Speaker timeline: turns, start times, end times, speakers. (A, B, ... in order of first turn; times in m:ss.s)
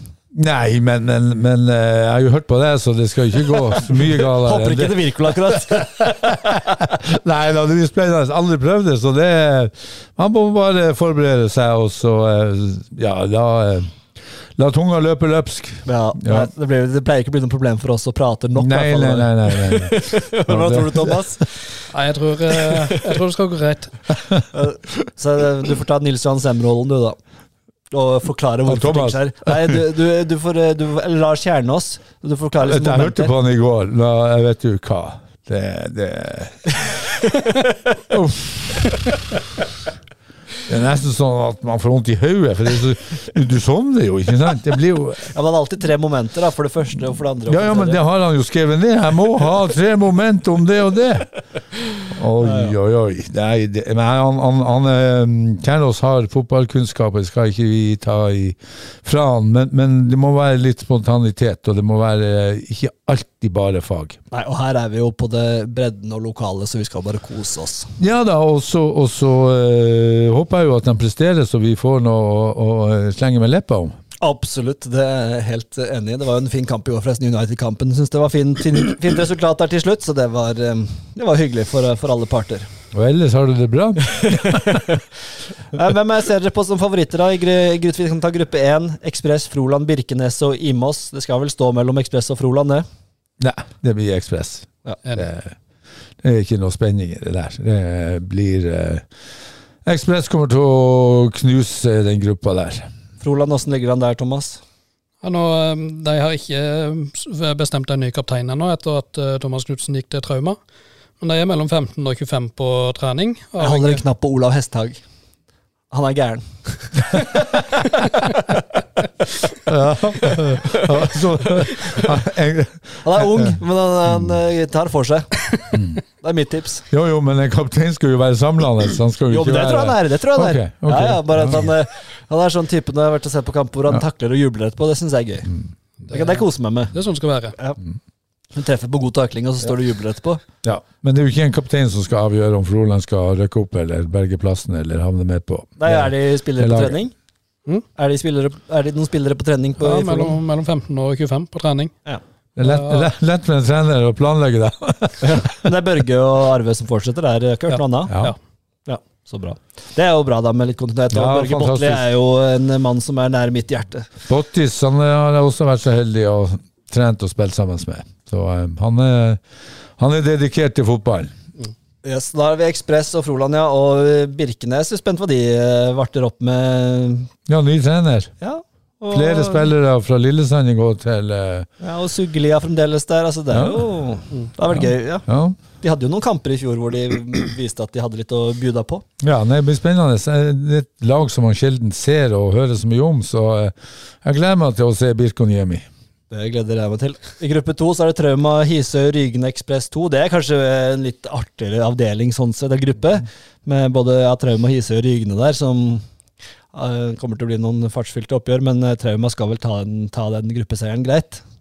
0:00.3-0:14.0 A
0:04.4-0:06.5 B
0:14.6-0:16.5 A
0:15.9-0:21.5 B
0:18.6-0:21.2 A
0:21.9-0:24.0 C
0:24.5-0:27.2 B
0:27.9-0:33.3 B
0:28.7-0:29.8 A
0:32.6-0:36.8 A
0:38.1-0:39.0 A
0:40.7-0:45.3 A
0:45.3-0:48.0 B
0:47.5-0:51.3 A
0:52.1-1:04.2 A
0:52.4-0:52.7 B
1:04.3-1:07.9 B
1:08.0-1:14.0 A
1:14.2-1:22.7 B
1:22.9-1:24.8 A
1:24.1-1:25.0 B
1:25.7-1:32.9 B
1:33.4-1:35.6 A
1:36.2-1:39.0 A
1:39.8-1:42.9 A
1:43.2-1:44.6 B
1:45.2-1:50.6 C
1:51.2-1:54.0 C
1:53.6-1:55.0 B
1:55.9-1:58.4 B
1:59.6-2:03.6 A
2:03.0-2:05.6 B
2:05.7-2:06.0 A
2:06.2-2:06.8 B
2:06.9-2:11.7 A
2:09.3-2:15.5 B
2:16.1-2:17.6 C
2:16.1-2:17.0 B
2:18.6-2:20.4 B
2:20.6-2:27.0 A
2:25.8-2:27.1 B
2:28.0-2:30.4 B
2:29.8-2:31.9 C
2:32.6-2:35.5 A
2:32.6-2:33.1 C
2:35.2-2:38.2 B
2:37.7-2:38.4 C
2:38.1-2:38.4 A
2:38.9-2:44.1 B
2:41.1-2:42.1 A
2:44.3-2:49.4 A
2:50.0-2:51.3 A
2:52.0-2:57.3 B
2:57.5-2:58.3 A
2:58.4-2:59.7 B
2:59.1-3:01.7 A
3:01.8-3:05.3 B
3:03.5-3:03.9 A
3:04.7-3:05.6 A
3:05.8-3:09.0 B
3:09.2-3:15.9 A
3:16.3-3:26.0 B
3:26.7-3:31.4 B